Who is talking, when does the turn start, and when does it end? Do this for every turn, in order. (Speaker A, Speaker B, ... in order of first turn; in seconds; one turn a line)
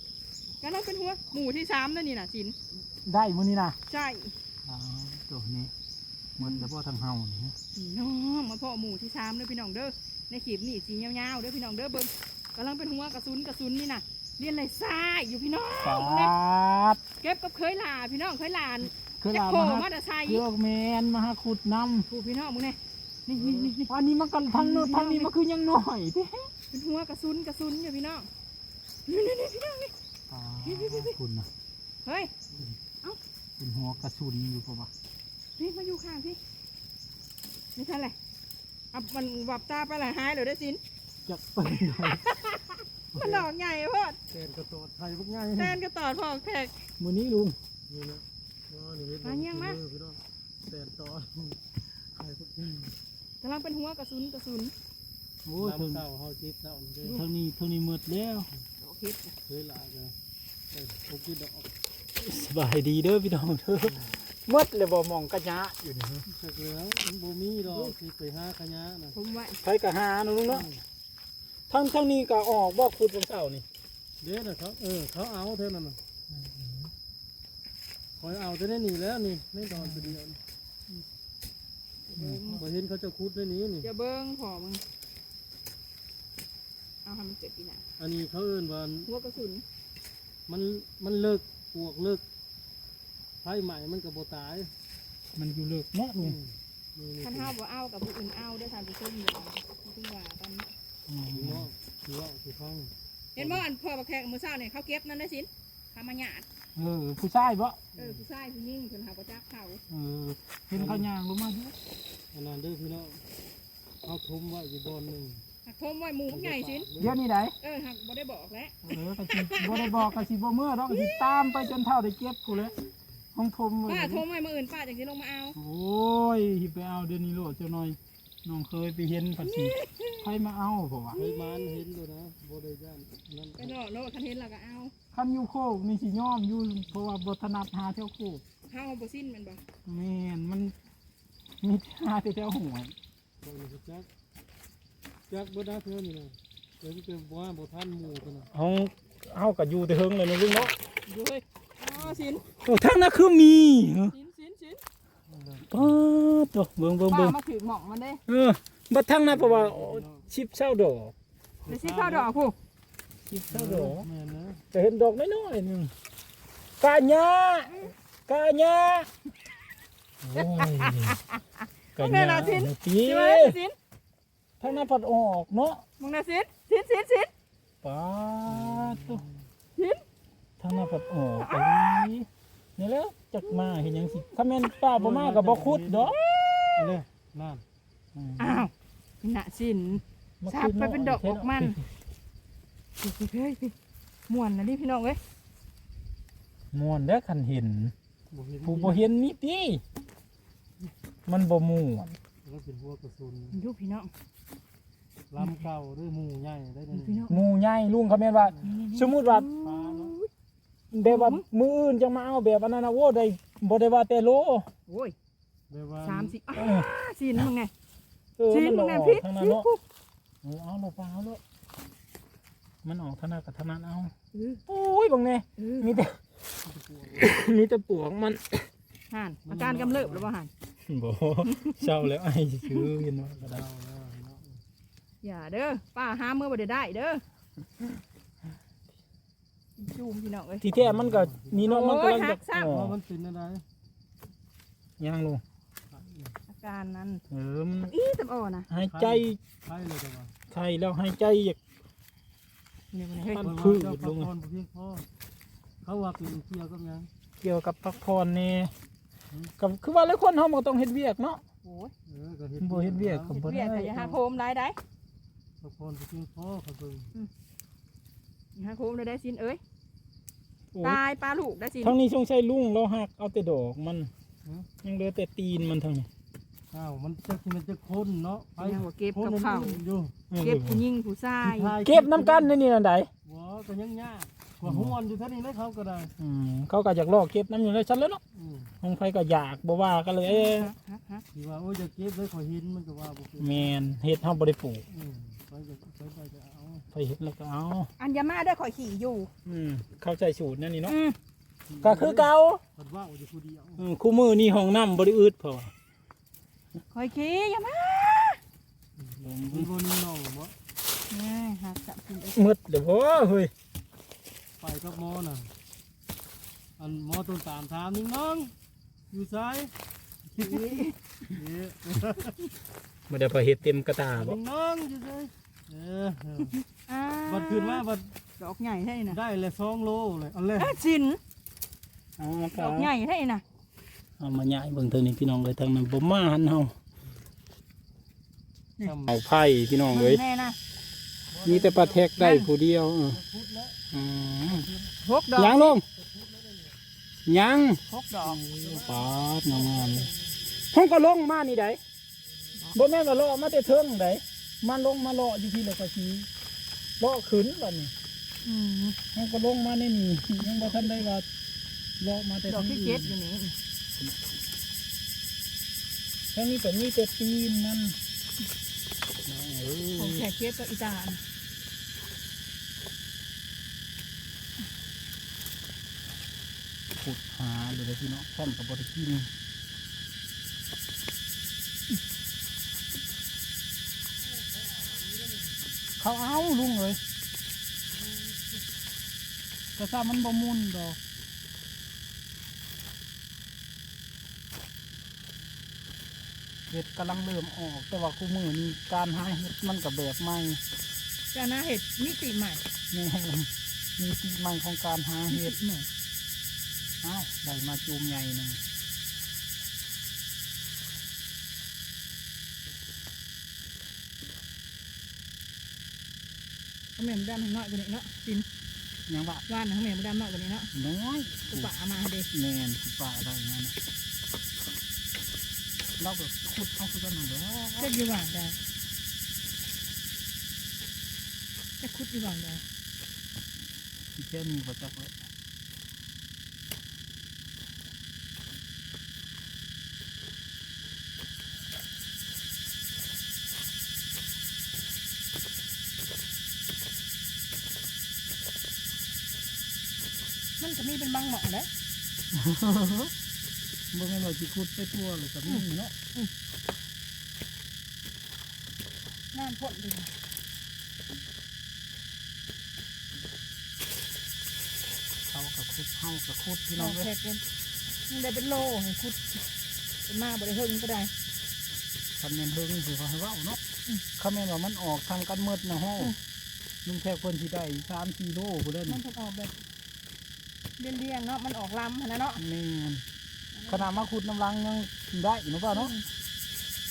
Speaker A: 0.6-2.6
Speaker B: 3.0-3.8
Speaker A: 3.9-4.3
Speaker B: 4.7-5.7
Speaker B: 6.4-7.5
Speaker A: 6.4-6.7
Speaker A: 7.8-16.3
Speaker B: 15.8-17.0
Speaker A: 17.2-20.4
Speaker B: 19.2-22.1
Speaker A: 22.1-23.9
Speaker C: 23.3-23.8
Speaker B: 23.9-26.5
Speaker A: 24.5-25.3
Speaker A: 26.7-28.3
Speaker A: 29.1-29.9
Speaker B: 30.3-31.5
Speaker A: 30.6-31.2
Speaker A: 32.0-32.3
Speaker B: 33.6-34.9
Speaker A: 35.6-36.4
Speaker A: 37.8-38.2
Speaker A: 38.9-40.8
Speaker B: 41.3-42.4
Speaker A: 41.7-44.2
Speaker C: 43.1-43.5
Speaker C: 44.3-45.8
Speaker A: 45.6-46.8
Speaker B: 47.0-47.6
Speaker C: 47.9-51.6
Speaker A: 49.2-49.8
Speaker C: 52.1-52.9
Speaker A: 53.4-54.7
Speaker B: 55.5-56.0
Speaker C: 55.6-57.2
Speaker B: 57.1-58.5
Speaker A: 58.8-59.3
Speaker C: 59.5-60.2
Speaker C: 60.7-61.7
Speaker B: 62.2-66.2
Speaker C: 63.8-64.1
Speaker C: 66.3-69.2
Speaker A: 69.2-69.6
Speaker B: 69.6-70.7
Speaker C: 70.5-70.8
Speaker B: 71.7-73.7
Speaker C: 74.2-76.0
Speaker B: 76.4-76.9
Speaker C: 78.2-80.4
Speaker B: 79.8-80.2
Speaker A: 82.1-82.7
Speaker B: 82.1-82.6
Speaker C: 82.6-83.9
Speaker A: 83.8-84.8
Speaker A: 87.0-87.8
Speaker C: 88.0-89.1
Speaker A: 89.1-89.6
Speaker C: 90.5-92.2
Speaker C: 93.4-94.7
Speaker B: 95.3-96.4
Speaker C: 96.2-97.5
Speaker A: 97.2-100.7
Speaker B: 101.1-101.7
Speaker C: 101.3-103.7
Speaker A: 103.4-106.5
Speaker B: 106.8-107.8
Speaker C: 108.0-108.2
Speaker A: 108.0-109.8
Speaker B: 109.9-111.8
Speaker C: 110.8-111.1
Speaker C: 112.3-113.2
Speaker C: 114.0-115.4
Speaker A: 115.7-116.9
Speaker C: 116.3-117.2
Speaker B: 117.0-117.6
Speaker A: 117.6-120.2
Speaker B: 118.8-122.8
Speaker A: 120.9-121.8
Speaker B: 123.3-124.2
Speaker A: 123.9-125.6
Speaker B: 125.5-131.2
Speaker A: 129.4-130.3
Speaker A: 131.2-131.8
Speaker C: 131.2-133.8
Speaker A: 133.6-134.9
Speaker B: 135.1-138.4
Speaker A: 138.7-139.6
Speaker B: 139.8-140.8
Speaker B: 141.6-142.9
Speaker C: 143.4-144.1
Speaker C: 145.3-148.5
Speaker B: 148.5-150.8
Speaker A: 151.1-152.5
Speaker C: 151.9-152.3
Speaker B: 152.6-154.2
Speaker A: 154.1-154.8
Speaker C: 155.3-156.0
Speaker B: 155.7-157.4
Speaker A: 157.1-158.2
Speaker B: 158.3-161.1
Speaker C: 159.3-160.3
Speaker C: 161.6-162.3
Speaker A: 161.7-162.6
Speaker B: 163.3-164.1
Speaker C: 163.5-164.6
Speaker B: 164.7-165.9
Speaker B: 166.8-169.1
Speaker B: 170.3-171.2
Speaker A: 170.4-171.2
Speaker B: 172.0-173.6
Speaker A: 172.0-173.8
Speaker B: 174.6-175.8
Speaker A: 176.0-177.3
Speaker B: 177.8-179.2
Speaker C: 178.5-179.4
Speaker A: 179.8-180.0
Speaker B: 180.6-186.2
Speaker A: 181.2-182.1
Speaker C: 184.9-186.2
Speaker C: 186.8-187.6
Speaker B: 188.2-188.7
Speaker A: 188.4-188.7
Speaker A: 189.2-191.8
Speaker B: 190.4-191.8
Speaker A: 193.0-193.7
Speaker A: 194.3-195.2
Speaker B: 196.7-197.9
Speaker C: 198.3-199.1
Speaker B: 198.7-199.8
Speaker B: 201.3-202.2
Speaker C: 202.4-203.6
Speaker A: 203.5-204.1
Speaker C: 205.3-207.3
Speaker A: 206.9-207.4
Speaker B: 207.3-209.5
Speaker A: 208.6-210.3
Speaker C: 209.6-210.2
Speaker B: 210.9-214.7
Speaker A: 211.0-211.4
Speaker A: 214.9-215.2
Speaker C: 215.7-216.4
Speaker A: 216.1-217.7
Speaker B: 216.5-216.9
Speaker B: 218.4-219.7
Speaker A: 218.5-219.8
Speaker B: 220.4-221.4
Speaker B: 222.8-224.1
Speaker A: 224.3-224.6
Speaker B: 224.7-226.2
Speaker A: 225.6-226.0
Speaker C: 226.6-227.3
Speaker B: 227.2-228.7
Speaker A: 229.1-230.5
Speaker C: 229.4-230.3
Speaker B: 230.8-233.6
Speaker A: 231.5-231.9
Speaker A: 232.6-232.9
Speaker C: 233.3-234.6
Speaker A: 235.2-237.2
Speaker A: 239.8-240.7
Speaker B: 240.6-243.0
Speaker C: 240.8-241.7
Speaker A: 241.6-242.7
Speaker C: 242.6-243.6
Speaker B: 245.0-245.4
Speaker C: 245.9-246.3
Speaker A: 246.5-247.2
Speaker B: 247.3-248.0
Speaker A: 247.9-248.7
Speaker B: 248.7-249.4
Speaker C: 248.9-250.3
Speaker B: 250.5-251.6
Speaker A: 252.9-253.5
Speaker B: 253.3-254.3
Speaker C: 253.4-255.1
Speaker C: 255.8-257.1
Speaker B: 257.4-258.7
Speaker B: 259.6-261.4
Speaker A: 261.6-261.9
Speaker C: 262.1-263.4
Speaker B: 262.6-264.2
Speaker A: 263.3-264.8
Speaker C: 265.6-267.1
Speaker A: 268.6-269.6
Speaker B: 270.7-271.0
Speaker A: 270.8-272.0
Speaker B: 271.8-274.1
Speaker B: 274.8-276.1
Speaker C: 276.7-280.2
Speaker A: 278.6-279.8
Speaker B: 280.3-280.8
Speaker A: 280.4-281.8
Speaker C: 281.4-282.5
Speaker B: 281.8-283.1
Speaker C: 283.2-286.1
Speaker B: 284.6-285.0
Speaker B: 286.2-288.2
Speaker C: 288.3-288.7
Speaker B: 288.8-290.7
Speaker A: 290.2-291.2
Speaker C: 291.3-293.8
Speaker B: 293.4-294.8
Speaker C: 294.9-296.9
Speaker B: 296.9-297.9
Speaker A: 298.0-299.3
Speaker B: 299.4-301.0
Speaker A: 300.9-301.2
Speaker C: 301.7-303.9
Speaker B: 301.8-302.6
Speaker B: 303.8-305.7
Speaker A: 306.9-308.4
Speaker C: 309.0-310.6
Speaker B: 309.2-309.7
Speaker A: 311.1-312.4
Speaker B: 312.3-313.5
Speaker C: 314.6-315.5
Speaker C: 316.8-318.5
Speaker C: 319.1-319.7
Speaker C: 320.3-322.4
Speaker A: 320.5-320.9
Speaker B: 323.1-324.4
Speaker C: 324.1-326.6
Speaker A: 326.6-327.9
Speaker C: 327.2-328.2
Speaker A: 328.4-329.2
Speaker C: 329.1-330.8
Speaker A: 330.6-331.2
Speaker B: 332.2-332.9
Speaker A: 332.6-333.4
Speaker B: 334.2-336.7
Speaker C: 338.8-339.2
Speaker B: 339.1-340.2
Speaker A: 339.9-340.6
Speaker C: 341.3-342.2
Speaker B: 341.4-343.2
Speaker A: 342.2-342.5
Speaker C: 343.1-343.8
Speaker B: 343.9-344.7
Speaker C: 344.4-344.9
Speaker A: 345.0-345.8
Speaker B: 345.4-345.8
Speaker C: 345.9-346.8
Speaker B: 347.2-350.1
Speaker A: 347.9-348.4
Speaker C: 348.5-350.1
Speaker B: 350.7-351.8
Speaker B: 352.7-356.3
Speaker B: 357.0-357.9
Speaker A: 358.4-359.0
Speaker B: 359.1-361.3
Speaker A: 360.4-361.1
Speaker B: 362.0-363.1
Speaker A: 362.5-363.6
Speaker B: 366.3-368.0
Speaker B: 369.2-370.2
Speaker A: 370.0-371.2
Speaker B: 376.9-379.3
Speaker B: 386.0-387.0
Speaker B: 389.8-391.0
Speaker B: 396.7-400.6
Speaker A: 401.3-402.6
Speaker B: 402.9-405.6
Speaker A: 405.3-405.9
Speaker B: 407.0-408.6
Speaker A: 417.0-418.5
Speaker B: 419.1-419.4
Speaker A: 419.5-420.7
Speaker B: 420.7-421.7
Speaker A: 421.5-422.3
Speaker B: 422.3-423.8
Speaker B: 426.0-427.9
Speaker A: 427.8-428.6
Speaker A: 431.8-432.6
Speaker B: 434.1-435.1
Speaker A: 450.6-451.7
Speaker B: 452.3-453.1
Speaker B: 453.9-455.9
Speaker A: 455.5-456.3
Speaker A: 459.3-460.1
Speaker B: 465.3-467.1
Speaker A: 466.8-467.4
Speaker A: 468.1-469.5
Speaker A: 470.1-471.1
Speaker B: 472.2-473.6
Speaker B: 474.2-476.1
Speaker B: 476.9-479.0
Speaker A: 478.9-479.6
Speaker A: 480.8-482.4
Speaker B: 482.4-483.0
Speaker A: 483.6-483.9
Speaker B: 483.7-485.9
Speaker A: 485.7-486.0